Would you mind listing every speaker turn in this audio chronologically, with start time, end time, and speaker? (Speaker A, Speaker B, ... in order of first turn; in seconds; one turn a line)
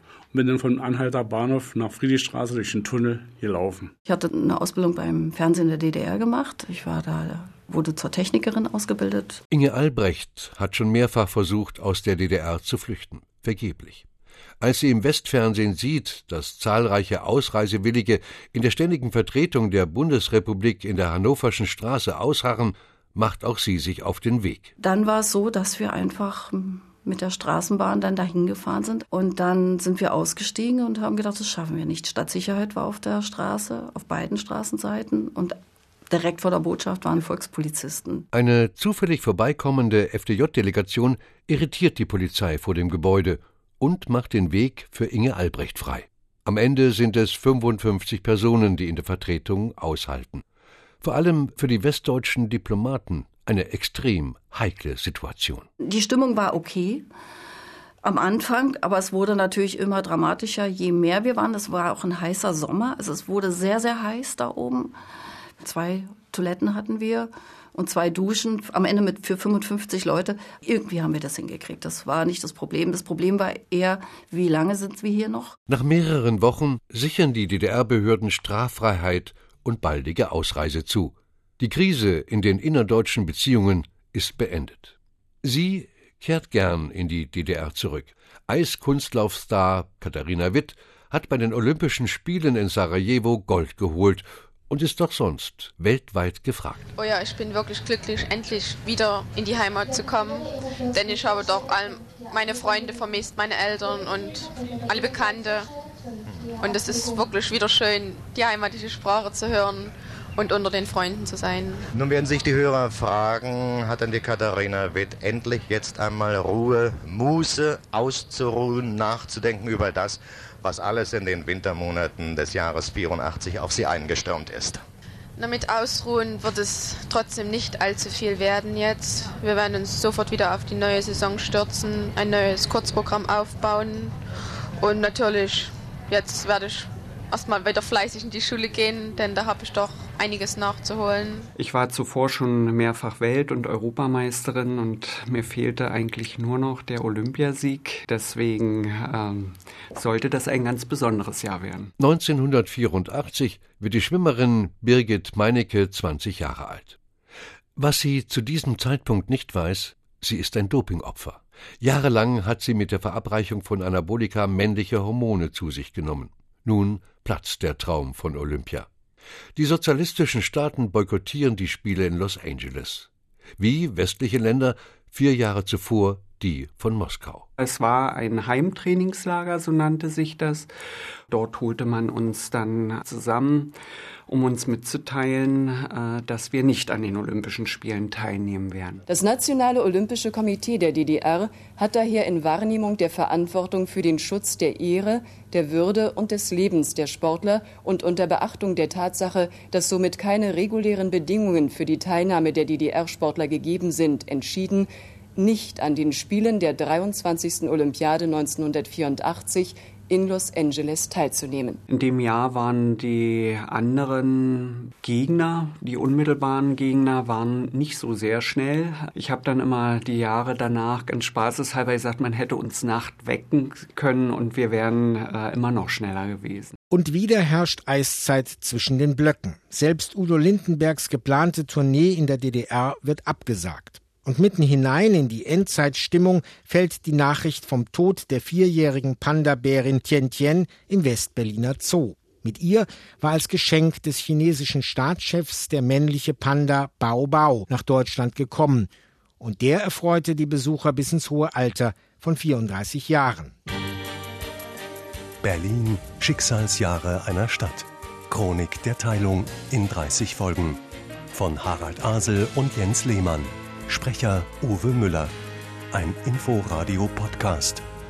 Speaker A: 0.3-3.6
Speaker B: 0.3-3.8
Speaker C: 4.0-9.4
Speaker D: 9.5-14.1
Speaker D: 14.6-24.7
Speaker C: 24.8-35.6
Speaker C: 36.1-38.3
Speaker D: 38.3-50.4
Speaker D: 51.0-55.7
Speaker C: 55.8-57.1
Speaker C: 58.0-64.9
Speaker C: 65.6-75.6
Speaker D: 75.7-96.9
Speaker E: 97.0-105.7
Speaker F: 106.3-106.5
Speaker E: 106.5-111.9
Speaker F: 111.9-124.8
Speaker E: 125.4-134.1
Speaker E: 134.8-141.5
Speaker G: 141.6-151.9
Speaker D: 152.0-157.0
Speaker D: 157.8-168.9
Speaker D: 169.6-177.5
Speaker G: 177.6-180.7
Speaker G: 181.3-183.8
Speaker G: 184.3-189.0
Speaker A: 189.1-211.9
Speaker G: 211.9-226.8
Speaker H: 226.9-253.5
Speaker I: 255.4-260.8
Speaker I: 261.3-265.3
Speaker I: 265.9-267.8